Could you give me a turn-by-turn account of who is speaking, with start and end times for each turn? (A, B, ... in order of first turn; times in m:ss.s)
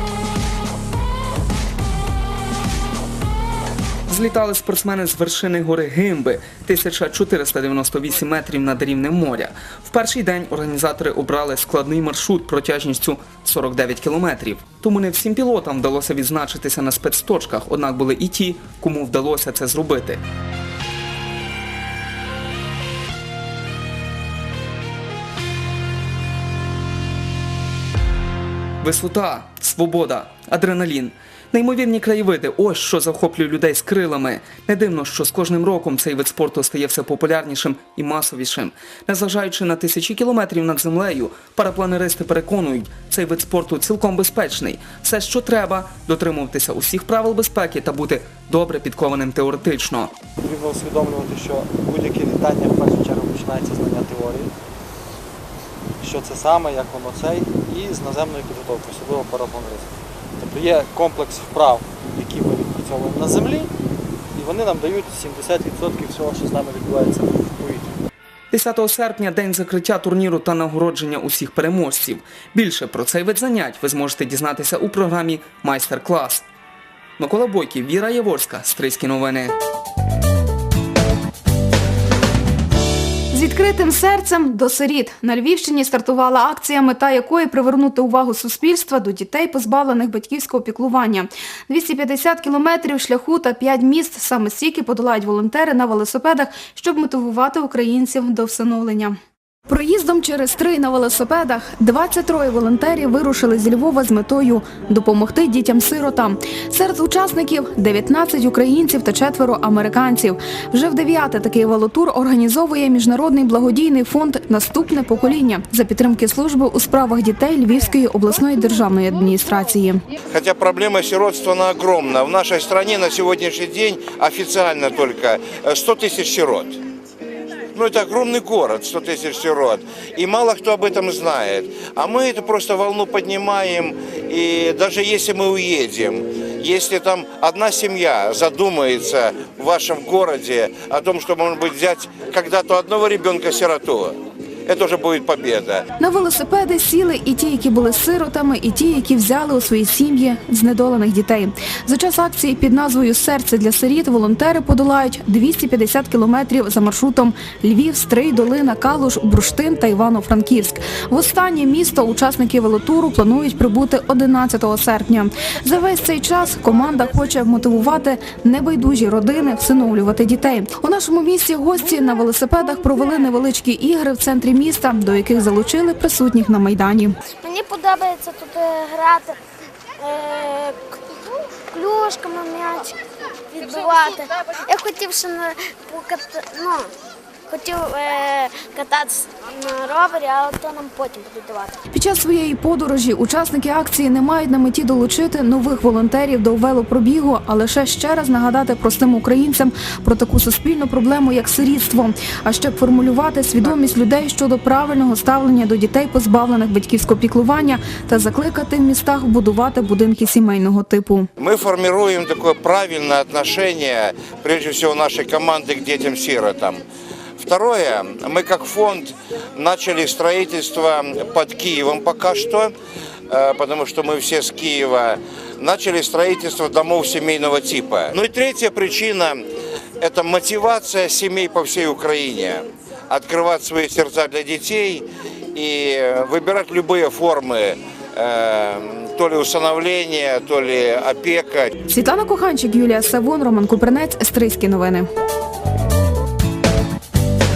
0:04.1-0:20.2 A
0:28.8-0:50.1 A
0:50.4-0:54.5 B
0:56.0-1:03.7 B
1:04.3-1:08.0 B
1:08.5-1:16.5 A
1:17.2-1:19.5 A
1:23.3-1:39.2 C
1:39.7-2:00.0 C
2:00.3-2:06.8 D
2:07.7-2:25.9 D
2:26.0-2:57.2 C
2:57.3-2:59.4 E
3:00.0-3:01.0 E
3:01.7-3:03.0 E
3:03.5-3:06.9 E
3:07.5-3:11.8 E
3:11.9-3:31.3 C
3:31.4-3:36.8 D
3:37.4-3:42.7 D
3:43.3-3:49.4 D
3:50.0-4:01.7 D
4:01.9-4:05.1 C